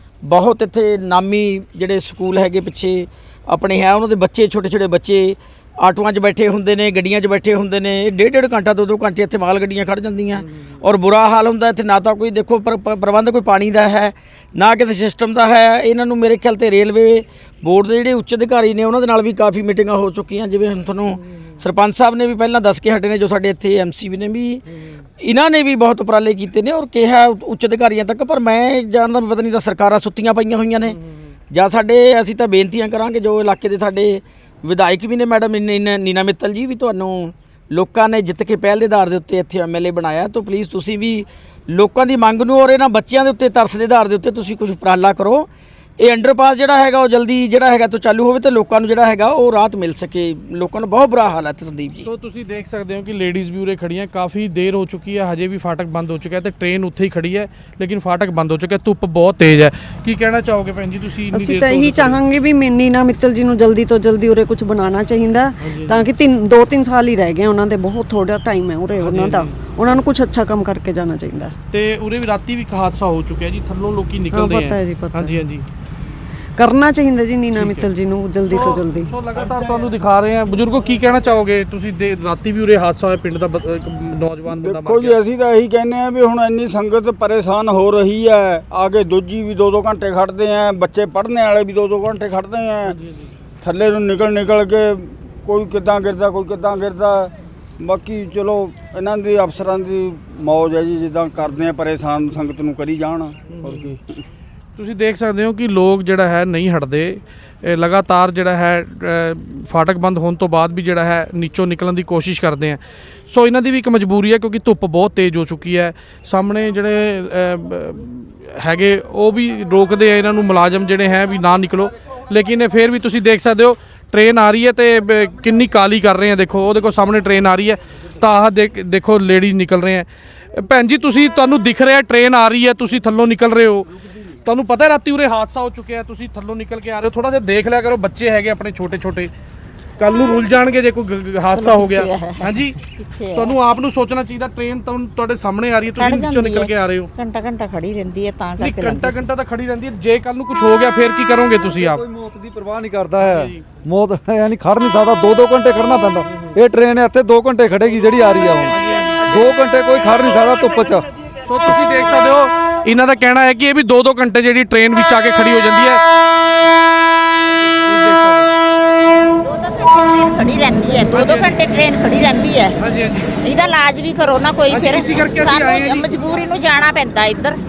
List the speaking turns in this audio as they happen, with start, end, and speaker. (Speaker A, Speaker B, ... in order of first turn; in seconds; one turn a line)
Speaker A: 0.2-24.6
Speaker B: 10.4-10.7
Speaker B: 21.2-21.6
Speaker B: 24.7-25.0
Speaker A: 25.2-31.0
Speaker B: 30.9-31.3
Speaker A: 31.5-45.5
Speaker A: 46.0-52.0
Speaker B: 52.0-62.2
Speaker C: 61.3-71.5
Speaker B: 65.6-66.1
Speaker B: 69.0-69.6
Speaker B: 71.7-75.7
Speaker C: 74.3-75.3
Speaker C: 76.6-79.1
Speaker B: 77.5-77.9
Speaker B: 78.5-85.2
Speaker D: 84.5-92.9
Speaker B: 92.8-93.3
Speaker D: 93.6-104.2
Speaker B: 103.5-103.9
Speaker B: 104.8-133.9
Speaker B: 134.4-139.3
Speaker B: 140.0-142.8
Speaker E: 141.5-143.5
Speaker B: 143.3-147.1
Speaker E: 146.0-149.2
Speaker B: 148.6-152.0
Speaker F: 151.6-161.1
Speaker B: 153.2-153.6
Speaker B: 158.7-159.3
Speaker B: 161.4-166.0
Speaker B: 167.8-168.5
Speaker E: 169.3-172.8
Speaker B: 171.1-171.6
Speaker B: 172.8-173.3
Speaker E: 173.4-177.6
Speaker B: 174.7-176.1